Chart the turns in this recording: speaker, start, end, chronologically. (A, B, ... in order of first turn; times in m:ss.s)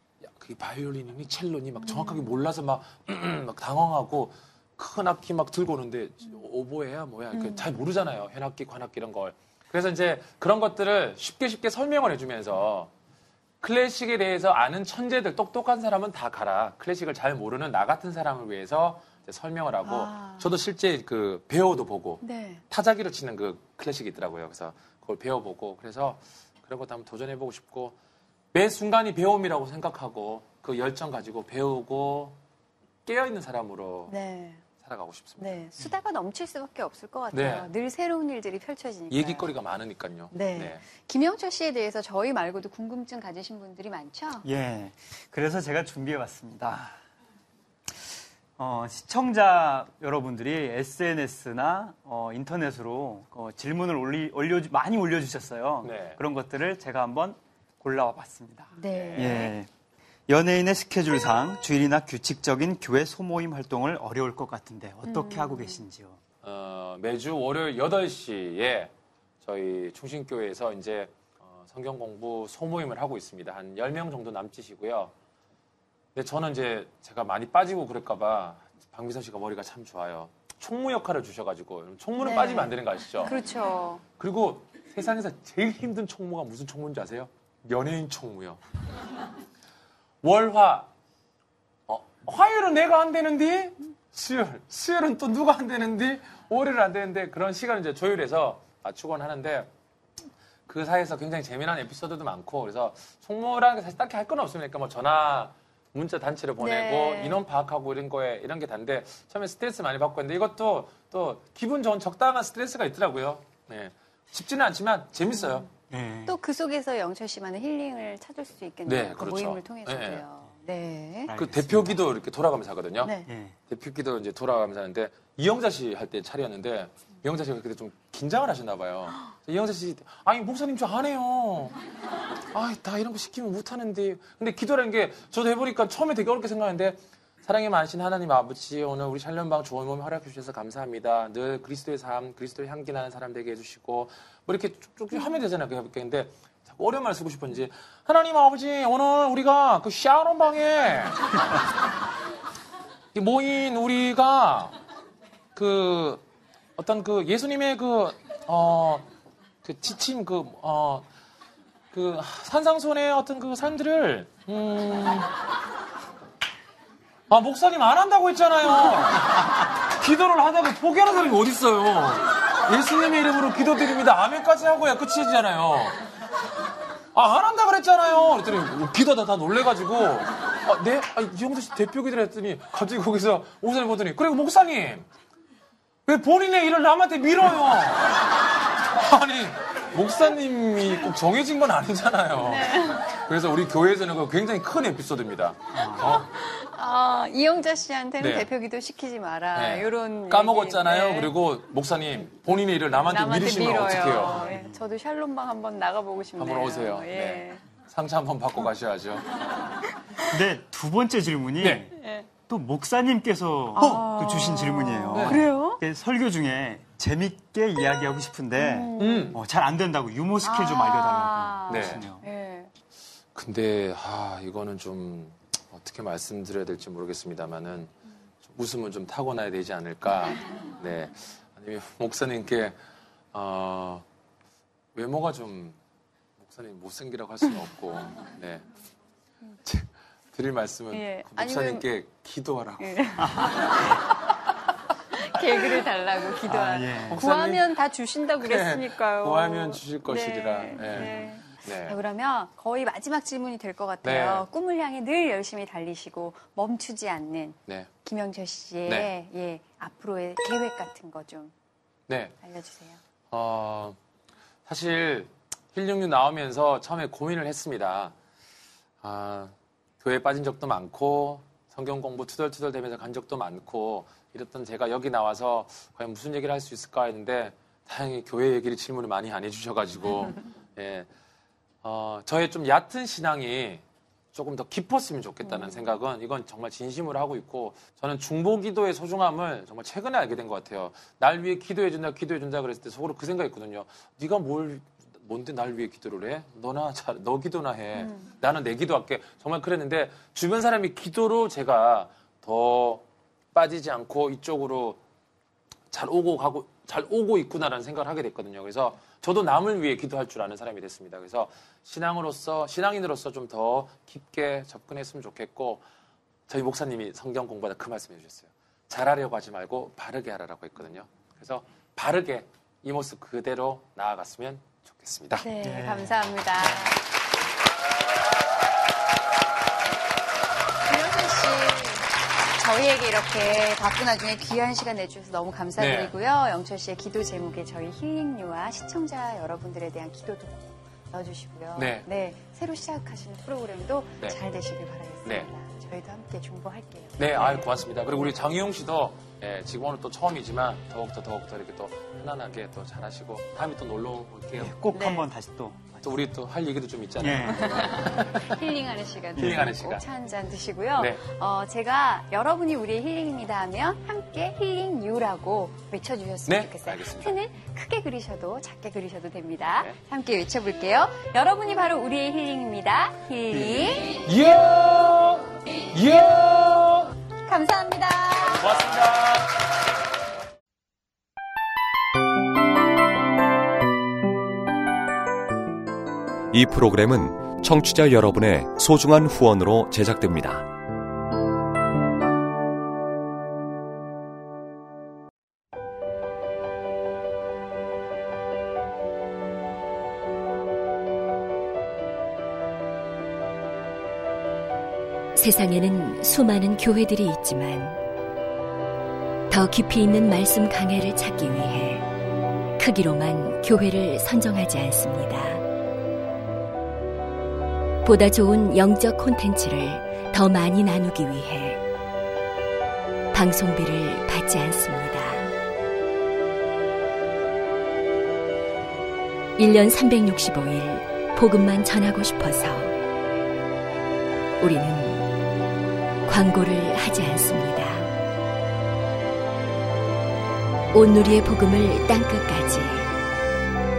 0:00.3-0:12.9 A
0:01.9-0:02.2 B
0:07.3-0:07.6 B
0:13.6-0:28.0 A
0:19.8-0:20.5 B
0:22.2-0:22.6 B
0:28.5-0:32.4 A
0:33.1-0:34.1 A
0:34.1-0:34.6 B
0:34.8-0:35.6 A
0:35.4-0:39.5 B
0:37.3-0:37.7 A
0:39.1-0:40.8 A
0:40.3-0:44.5 B
0:44.4-0:47.0 C
0:48.6-0:59.7 C
0:55.8-0:56.2 A
0:58.8-0:59.5 B
0:58.9-0:59.4 A
1:00.3-1:06.2 C
1:05.0-1:05.8 B
1:06.4-1:15.1 A
1:16.2-1:23.4 A
1:22.2-1:22.7 B
1:23.2-1:24.0 B
1:24.2-1:28.6 A
1:30.2-1:30.9 A
1:31.9-1:39.7 A
1:40.7-1:55.7 A
1:46.6-1:47.4 B
1:55.9-1:56.4 C
1:56.3-2:01.3 B
1:58.9-2:00.2 A
2:01.3-2:02.0 C
2:01.3-2:03.1 A
2:03.0-2:03.3 B
2:03.3-2:03.6 C
2:03.7-2:11.8 A
2:12.5-2:31.3 A
2:33.1-2:34.8 A
2:35.6-2:36.2 A
2:36.8-2:39.1 A
2:39.6-2:41.0 A
2:41.9-2:45.3 A
2:47.3-2:56.0 A
2:57.2-3:05.1 A
3:06.1-3:08.4 A
3:08.9-3:16.3 A
3:12.4-3:13.2 B
3:15.8-3:16.0 C
3:16.0-3:21.3 B
3:18.2-3:18.5 A
3:19.6-3:24.5 A
3:23.1-3:27.6 B
3:24.4-3:24.8 C
3:26.4-3:29.4 A
3:30.3-3:42.2 C
3:31.6-3:31.9 A
3:32.0-3:32.3 B
3:33.8-3:35.8 B
3:33.8-3:34.2 A
3:35.1-3:35.4 A
3:38.6-3:39.4 B
3:39.0-3:39.4 A
3:40.4-3:42.7 B
3:41.7-3:42.0 A
3:43.4-3:47.9 A
3:48.4-3:52.8 A
3:53.3-3:54.0 A
3:55.0-3:55.8 A
3:56.4-3:58.6 A
3:59.6-4:03.4 A
4:00.9-4:01.9 B
4:02.8-4:04.2 B
4:03.2-4:03.5 C
4:05.1-4:21.5 B
4:06.5-4:07.2 C
4:07.1-4:07.7 A
4:08.4-4:12.0 A
4:14.0-4:14.5 A
4:22.1-4:22.4 A
4:22.4-4:23.0 B
4:23.3-4:24.0 A
4:24.7-4:28.1 A
4:29.0-4:41.1 A
4:41.8-5:05.0 A
4:58.0-4:58.3 B
5:05.9-5:15.8 A
5:16.5-5:25.4 A
5:25.4-5:27.0 B
5:25.6-5:26.4 C
5:30.8-5:47.7 B
5:35.8-5:36.1 A
5:41.8-5:42.1 A
5:47.2-5:54.8 A
5:54.6-5:56.3 C
5:54.9-5:55.3 B
5:56.0-5:58.5 A
5:57.2-5:57.8 C
5:57.5-6:14.2 B
5:59.4-6:00.0 A
5:59.4-5:59.7 C
6:06.5-6:07.4 A
6:13.6-6:17.1 A
6:17.5-6:18.9 B
6:18.6-6:19.5 A
6:26.5-6:30.7 D
6:45.4-6:48.0 E
6:49.5-6:52.1 E
6:52.8-6:55.6 E
6:58.0-7:01.8 E
7:03.3-7:05.5 E
7:09.6-7:13.0 E
7:14.6-7:15.3 E
7:16.3-7:18.1 E
7:20.9-7:23.1 E